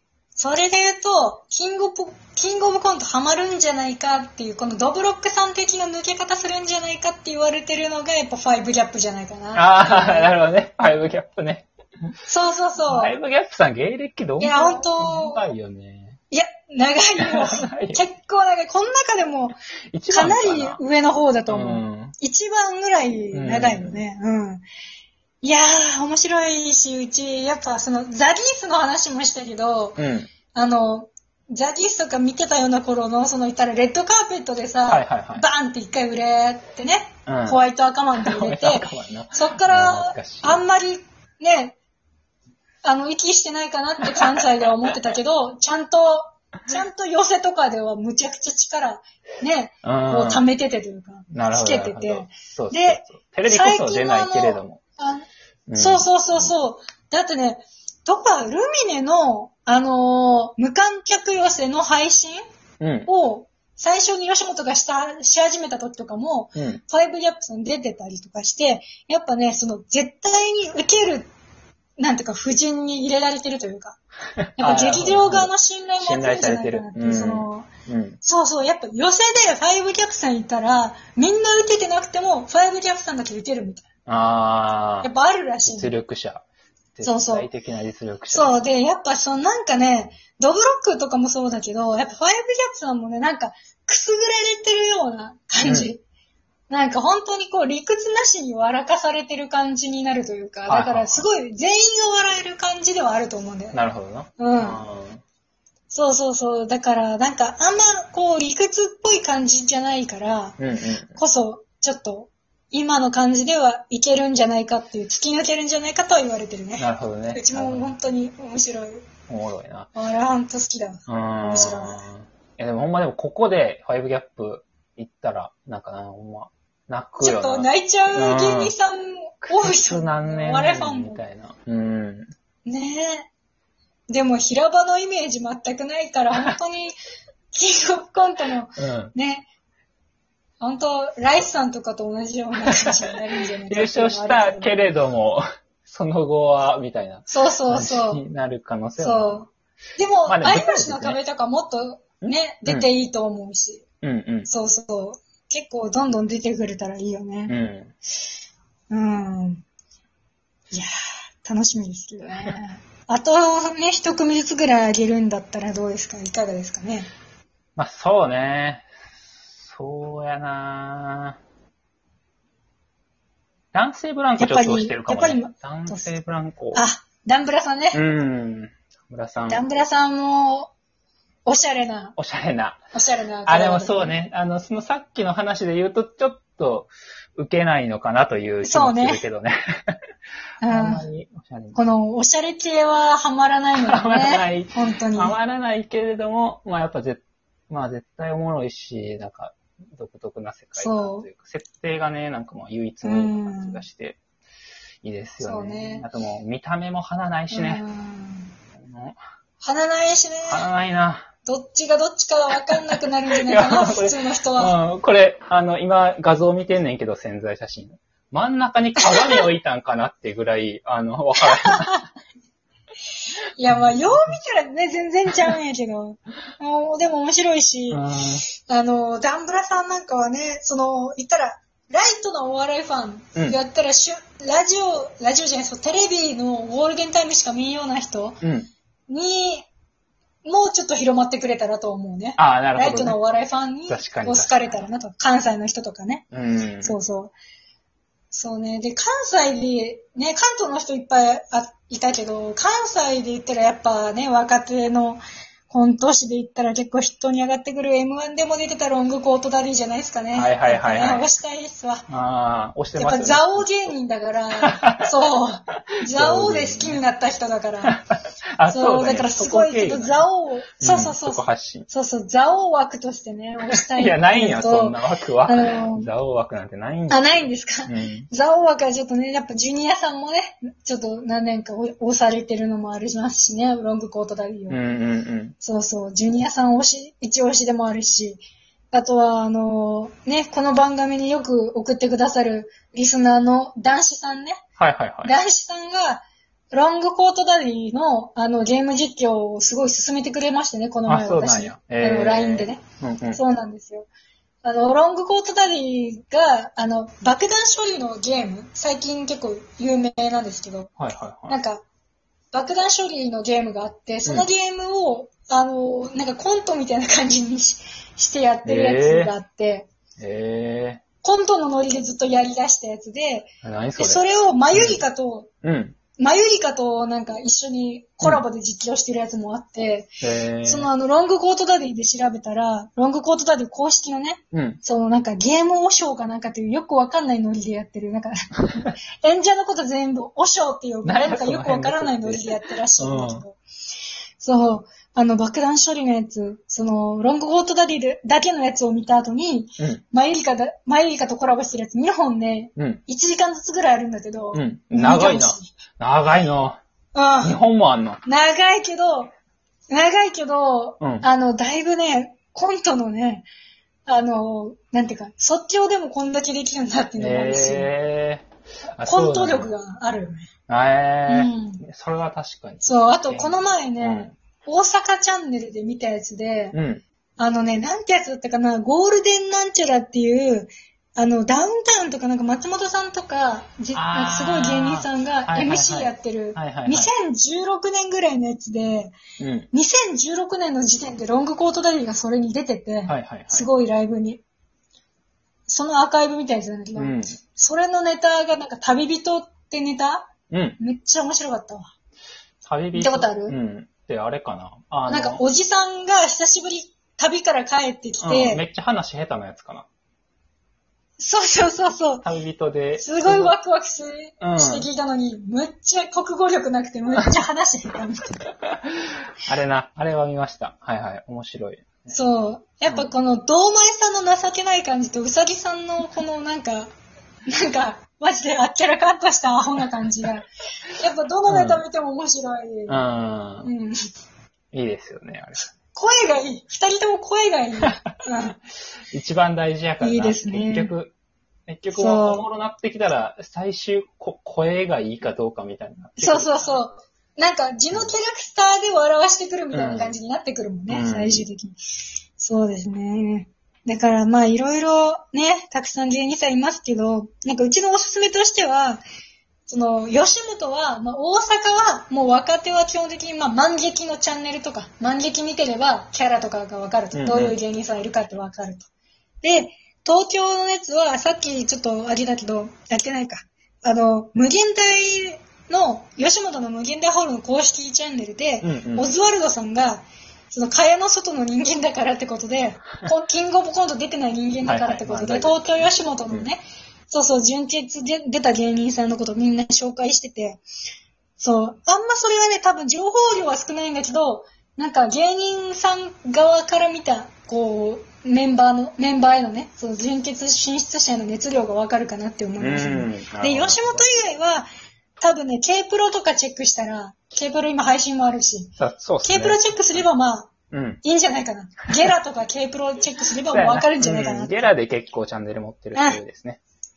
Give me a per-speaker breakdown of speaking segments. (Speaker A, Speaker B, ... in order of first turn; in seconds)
Speaker A: 0.3-10.3, 12.3-13.1, 14.4-15.4, 16.3-19.5, 20.1-24.6, 25.4-30.0, 30.5-41.8, 42.8-62.4, 63.1-71.3, 72.0-74.0, 74.6-77.7, 78.2-83.8, 85.0-85.9, 87.0-87.5, 88.3-96.0, 96.7-103.8, 104.4-104.8, 105.9-110.6, 111.1-119.1, 119.9-122.0, 127.2-131.2, 132.7-133.3, 134.1-137.0, 137.5-139.5, 140.6-144.8, 147.3-148.2, 149.0-153.8, 154.5-157.5, 158.9-159.6, 160.7-167.1, 174.4-176.1, 176.7-178.0, 179.5-180.7, 181.4-182.2, 182.9-184.1, 188.6-189.2, 190.6-191.0, 191.7-195.3, 200.8-201.2, 203.0-203.8, 205.4-206.1, 207.5-208.5, 209.6-210.6, 211.4-214.7, 219.0-219.4, 221.4-222.0, 223.6-238.4, 239.1-239.7, 240.4-246.2, 246.8-247.3, 248.3-262.1, 262.9-267.9, 268.7-276.1, 277.1-284.8, 285.6-294.6, 295.2-302.8, 303.3-304.1, 304.6-310.9, 311.5-311.8, 312.5-319.9, 321.2-325.5, 326.2-330.1, 330.6-343.6, 344.4-355.7, 357.1-357.6, 358.2-359.3, 359.9-363.4, 364.1-367.9, 369.0-370.5, 371.3-371.8, 372.8-376.7, 377.4-389.2, 389.7-394.4, 395.7-401.9, 402.9-403.6, 405.1-408.6, 411.2-412.2, 413.0-418.5, 422.1-426.9, 427.5-433.0, 433.6-433.9, 435.9-438.6, 440.0-440.9, 441.9-442.5, 446.2-451.8, 452.4-459.0, 459.7-468.9, 469.4-490.6, 491.4-504.7, 505.2-508.7, 509.2-510.5, 511.0-514.7, 515.9-516.2
Speaker B: 9.5-11.7, 12.9-16.2, 17.2-18.0, 19.9-20.8, 21.5-22.1, 23.3-24.0, 30.0-30.3, 34.8-35.4, 37.2-37.6, 38.2-40.6, 44.1-44.4, 49.8-50.4, 51.3-54.8, 55.7-56.5, 62.8-63.1, 66.5-66.8, 74.4-78.2, 84.1-85.1, 85.6-86.4, 86.9-88.6, 95.6-95.9, 100.7-101.2, 103.7-105.2, 110.6-111.2, 116.8-117.9, 119.3-119.9, 121.1-128.7, 129.4-132.3, 138.8-139.1, 142.7-142.9, 143.7-149.4, 150.3-151.2, 152.2-152.9, 154.0-154.5, 157.5-157.9, 167.8-168.9, 169.5-171.4, 173.7-176.8, 177.9-179.6, 182.2-182.8, 183.4-189.9, 190.7-191.8, 193.8-204.2, 205.0-207.8, 208.8-209.2, 210.5-211.3, 213.4-222.0, 227.9-228.4, 238.4-238.7, 242.4-243.2, 243.9-244.8, 246.3-246.9, 260.3-261.3, 262.1-263.9, 264.6-265.1, 266.1-267.0, 267.9-270.2, 270.8-271.9, 273.7-278.3, 284.7-285.5, 294.8-295.3, 301.1-303.4, 311.0-311.6, 318.6-319.3, 320.2-321.0, 323.6-325.0, 325.6-326.0, 330.2-330.9, 334.5-334.8, 341.0-343.4, 354.5-356.8, 357.4-358.2, 361.0-361.3, 367.2-369.7, 370.7-374.3, 376.7-377.0, 383.9-387.1, 389.4-389.7, 393.1-393.7, 396.9-397.4, 400.5-400.8, 402.6-405.4, 408.2-409.9, 412.2-413.6, 414.4-414.9, 419.4-422.1, 431.5-431.8, 432.9-433.7, 434.7-435.6, 439.1-441.1, 441.7-446.8, 449.7-450.2, 450.9-451.4, 467.1-467.6, 478.6-479.1, 484.6-486.5, 502.6-504.1, 508.8-510.1, 510.7-511.0, 513.5-516.6